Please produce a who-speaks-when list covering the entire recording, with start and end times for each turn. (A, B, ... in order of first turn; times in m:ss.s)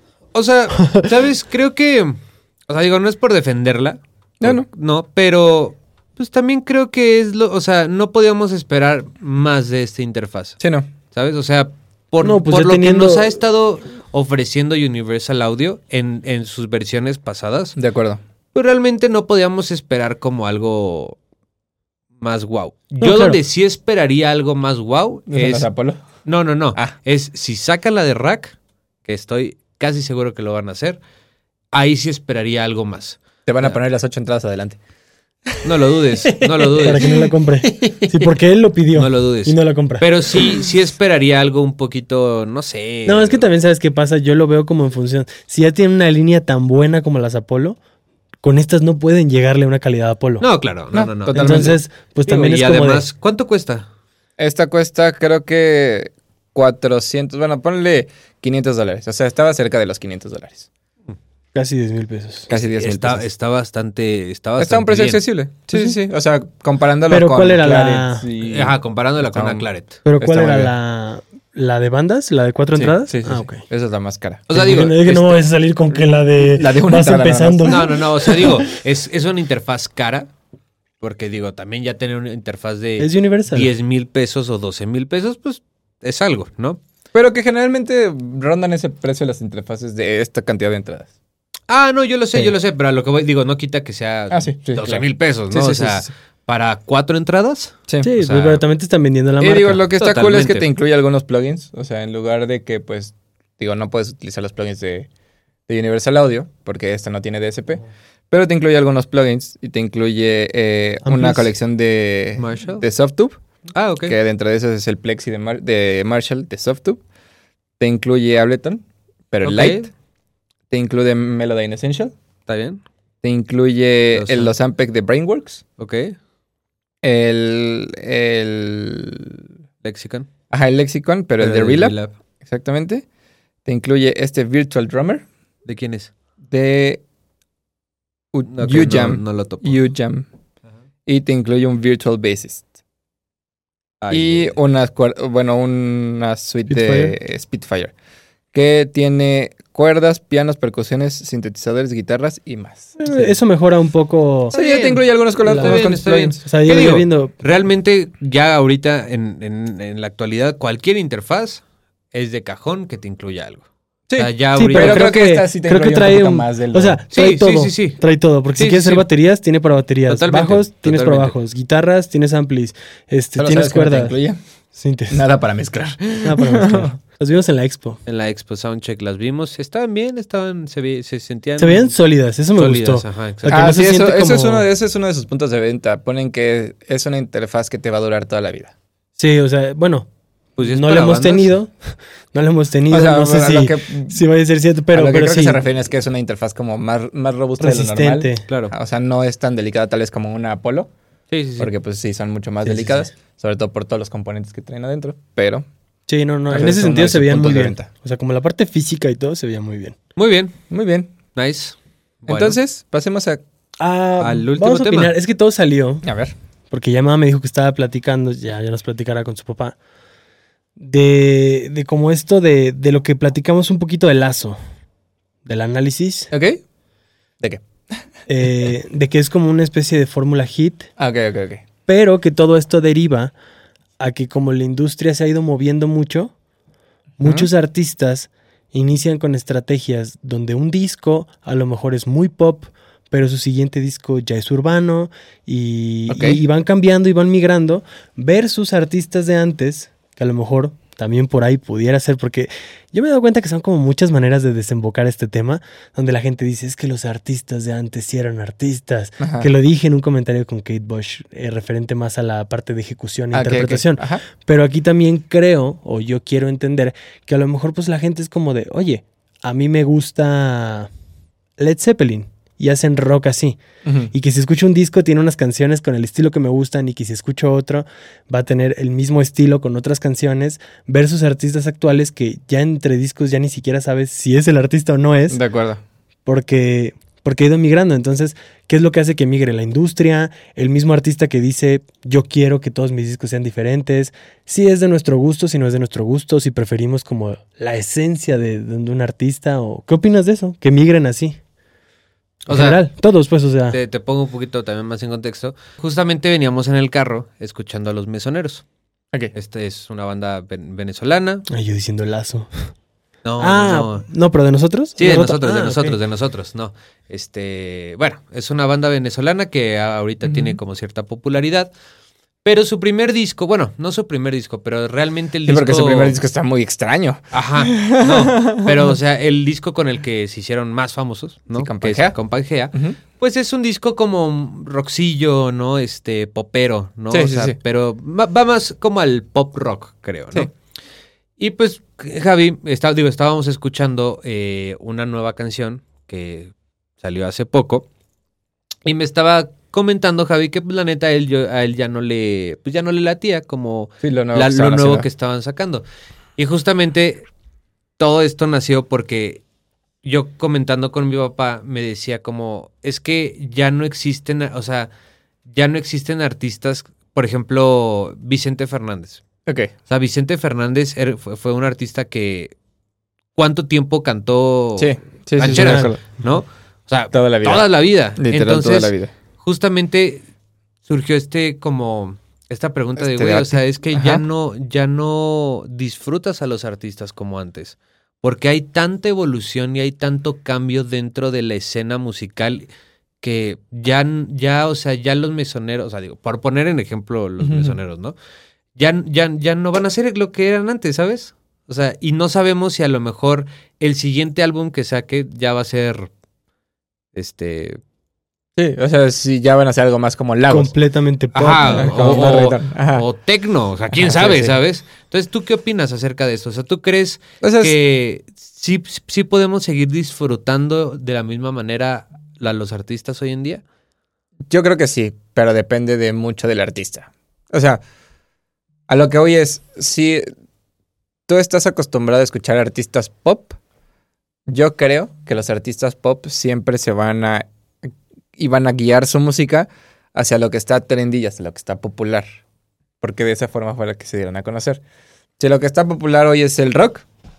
0:00.3-0:17.7 A
0:00.8-0:01.0 B
0:04.4-0:04.6 C
0:10.6-0:10.9 C
0:12.2-0:13.3 B
0:17.8-0:18.2 C
0:18.5-0:21.2 A
0:22.2-0:25.7 A
0:23.0-0:23.4 B
0:25.3-0:26.0 C
0:26.2-0:31.0 A
0:31.7-0:33.8 A
0:33.4-0:34.8 C
0:35.6-0:38.3 A
0:36.7-0:40.6 B
0:38.9-0:43.4 A
0:43.0-0:47.8 B
0:48.4-0:50.4 B
0:50.4-0:53.9 A
0:50.9-0:51.8 C
0:51.3-0:53.1 B
0:54.4-1:00.7 C
1:01.5-1:02.5 B
1:02.5-1:03.2 C
1:02.5-1:05.2 A
1:04.6-1:09.6 C
1:05.7-1:06.0 B
1:07.1-1:08.3 B
1:08.4-1:10.0 A
1:10.0-1:13.6 B
1:10.2-1:10.7 C
1:12.7-1:14.9 C
1:14.5-1:15.4 A
1:14.5-1:18.6 B
1:15.9-1:18.5 C
1:17.6-1:20.3 A
1:21.0-1:26.8 A
1:23.0-1:23.7 B
1:27.1-1:31.1 C
1:31.7-1:38.6 A
1:34.3-1:36.1 C
1:38.0-1:39.8 B
1:39.4-1:45.1 C
1:40.0-1:40.7 A
1:45.7-1:53.4 C
1:51.0-1:51.5 B
1:52.4-1:52.8 A
1:53.7-1:54.2 A
1:54.0-1:57.0 C
1:57.8-1:59.9 C
1:59.4-1:59.9 A
2:00.7-2:02.1 C
2:02.5-2:02.8 A
2:03.2-2:05.6 C
2:04.1-2:04.5 A
2:05.8-2:06.2 A
2:07.0-2:09.4 C
2:09.8-2:10.3 A
2:10.5-2:13.0 C
2:11.4-2:12.1 A
2:13.6-2:15.2 C
2:15.6-2:16.1 A
2:16.5-2:17.0 C
2:18.3-2:20.2 C
2:18.5-2:19.8 A
2:21.0-2:22.7 C
2:24.0-2:24.5 A
2:24.1-2:27.9 C
2:26.7-2:27.1 B
2:28.5-2:33.3 C
2:33.0-2:34.6 B
2:34.5-2:43.6 A
2:34.5-2:36.4 C
2:35.4-2:37.3 B
2:44.1-2:47.0 C
2:44.2-2:45.1 A
2:44.5-2:54.2 B
2:47.1-2:48.0 A
2:48.6-2:49.1 A
2:50.1-2:51.3 A
2:53.4-2:54.4 C
2:54.7-2:55.2 B
2:55.1-2:56.9 C
2:56.2-2:58.0 B
2:58.0-3:01.9 A
3:01.6-3:04.7 B
3:02.5-3:03.7 A
3:03.5-3:08.7 C
3:09.2-3:10.1 B
3:10.6-3:11.5 A
3:10.6-3:15.6 B
3:12.9-3:14.2 C
3:14.9-3:20.9 C
3:17.6-3:18.4 B
3:18.5-3:18.7 A
3:21.3-3:21.7 A
3:21.6-3:25.6 C
3:22.6-3:23.1 B
3:26.1-3:30.0 B
3:26.5-3:27.9 C
3:30.2-3:30.6 A
3:30.7-3:31.1 C
3:31.3-3:32.6 A
3:32.3-3:33.4 C
3:33.8-3:36.0 B
3:34.2-3:35.1 A
3:36.0-3:36.3 C
3:36.7-3:39.8 B
3:40.8-3:44.6 B
3:45.4-3:46.3 B
3:46.3-3:46.6 C
3:48.3-3:50.9 B
3:51.0-3:51.6 C
3:51.9-3:53.3 B
3:54.0-3:56.3 B
3:57.2-4:30.9 B
3:57.2-3:57.5 C
4:06.1-4:06.4 C
4:19.2-4:19.5 C
4:23.3-4:24.2 C
4:31.6-4:33.6 B
4:33.8-4:34.1 C
4:34.1-4:45.4 B
4:45.3-4:45.8 C
4:46.2-5:01.4 B
5:02.5-5:02.8 A
5:02.5-5:03.8 B
5:03.7-5:08.6 A
5:09.3-5:11.4 A
5:11.5-5:12.5 B
5:13.2-5:14.0 A
5:13.4-5:16.0 B
5:15.0-5:21.7 A
5:20.2-5:20.6 C
5:22.4-5:26.2 A
5:25.5-5:28.9 C
5:27.3-5:40.5 A
5:31.6-5:32.2 C
5:37.1-5:37.6 C
5:41.4-5:47.9 A
5:48.8-5:55.8 A
5:54.0-5:55.1 C
5:56.4-5:57.3 A
5:58.0-5:59.4 A
6:00.0-6:04.9 A
6:05.5-6:09.2 A
6:09.4-6:09.7 C
6:09.9-6:12.5 A
6:13.3-6:20.2 A
6:14.8-6:16.0 C
6:15.4-6:15.9 B
6:17.1-6:19.1 C
6:20.8-6:32.7 A
6:23.0-6:24.2 C
6:33.2-6:38.1 A
6:37.4-6:37.8 C
6:38.8-6:46.1 A
6:47.1-6:47.8 A
6:48.6-6:50.7 C
6:50.5-6:52.3 B
6:51.3-7:03.6 A
6:51.7-6:53.0 C
6:53.9-6:54.6 C
6:57.4-6:57.8 C
7:04.5-7:07.8 C
7:08.9-7:10.3 C
7:11.3-7:13.6 C
7:14.5-7:22.2 C
7:23.0-7:24.8 C
7:25.4-7:27.0 C